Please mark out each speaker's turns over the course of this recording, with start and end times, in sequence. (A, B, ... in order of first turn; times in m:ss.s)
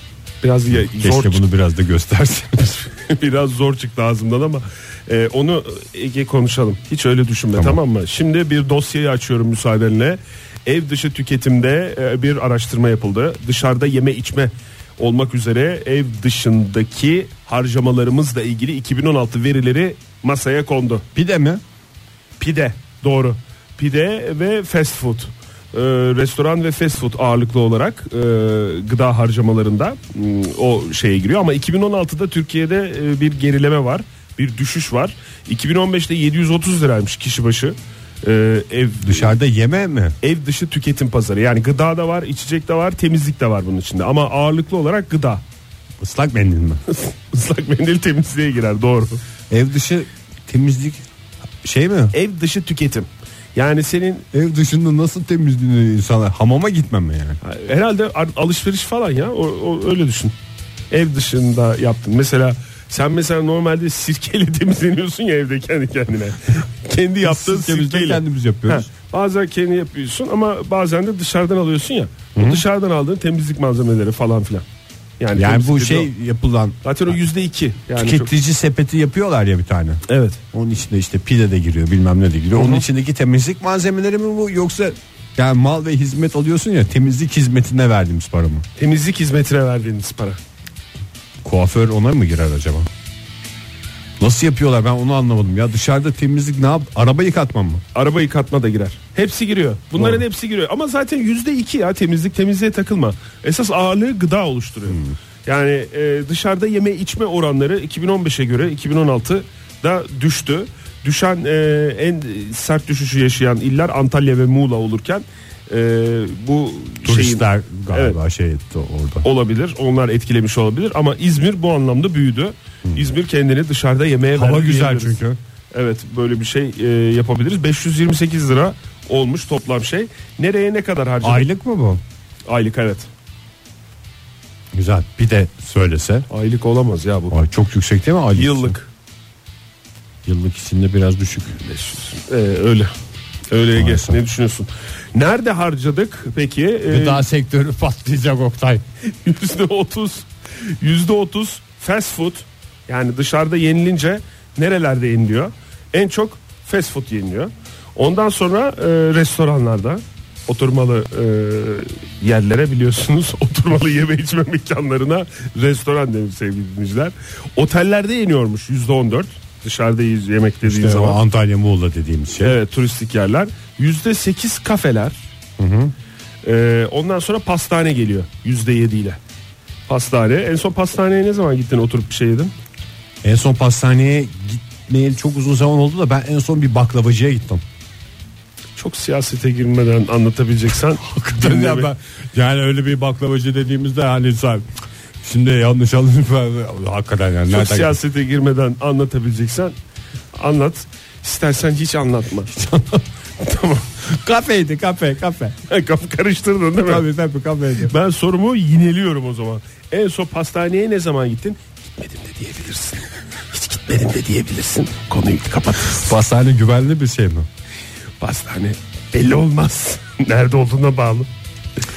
0:00.4-0:01.4 A
0:00.8-0:02.9 B
0:03.0-0:21.0 A
0:21.2-0:21.6 B
0:22.4-0:39.4 A
0:39.0-0:40.2 B
0:40.2-0:45.4 A
0:46.0-0:46.8 B
0:46.9-0:49.2 A
0:49.5-0:51.0 B
0:51.6-0:52.2 B
0:52.1-0:54.3 A
0:54.3-0:57.4 B
0:57.4-1:00.3 A
1:00.9-1:14.6 A
1:07.2-1:08.9 B
1:12.4-1:12.6 B
1:15.2-1:16.1 A
1:15.4-1:16.8 B
1:16.8-1:18.3 A
1:18.0-1:28.7 B
1:20.1-1:20.4 A
1:22.5-1:22.8 A
1:28.8-1:30.4 A
1:31.4-1:32.9 B
1:34.2-1:37.8 B
1:37.9-1:58.2 A
1:40.0-1:40.2 B
1:44.9-1:45.2 B
1:57.0-1:59.3 B
1:59.2-2:05.2 A
2:04.4-2:05.4 B
2:05.7-2:11.5 A
2:11.2-2:12.0 B
2:12.5-2:13.1 A
2:14.7-2:16.3 B
2:16.3-2:17.4 A
2:17.3-2:18.8 B
2:18.4-2:18.9 A
2:20.2-2:21.7 B
2:21.7-2:22.9 A
2:23.5-2:27.2 A
2:23.8-2:24.2 B
2:26.9-2:28.8 B
2:29.1-2:51.2 A
2:50.6-2:52.6 B
2:52.4-2:55.2 A
2:55.6-2:55.9 B
2:56.4-2:59.2 A
2:59.9-3:02.5 A
3:03.2-3:07.6 B
3:08.8-3:11.9 A
3:11.0-3:14.6 B
3:15.2-3:18.0 B
3:17.5-3:19.7 A
3:20.3-3:22.5 A
3:22.5-3:23.0 B
3:23.4-3:23.9 A
3:24.1-3:25.6 B
3:25.7-3:27.0 A
3:26.8-3:27.9 B
3:27.9-3:36.2 A
3:35.9-3:37.5 B
3:38.2-3:41.3 A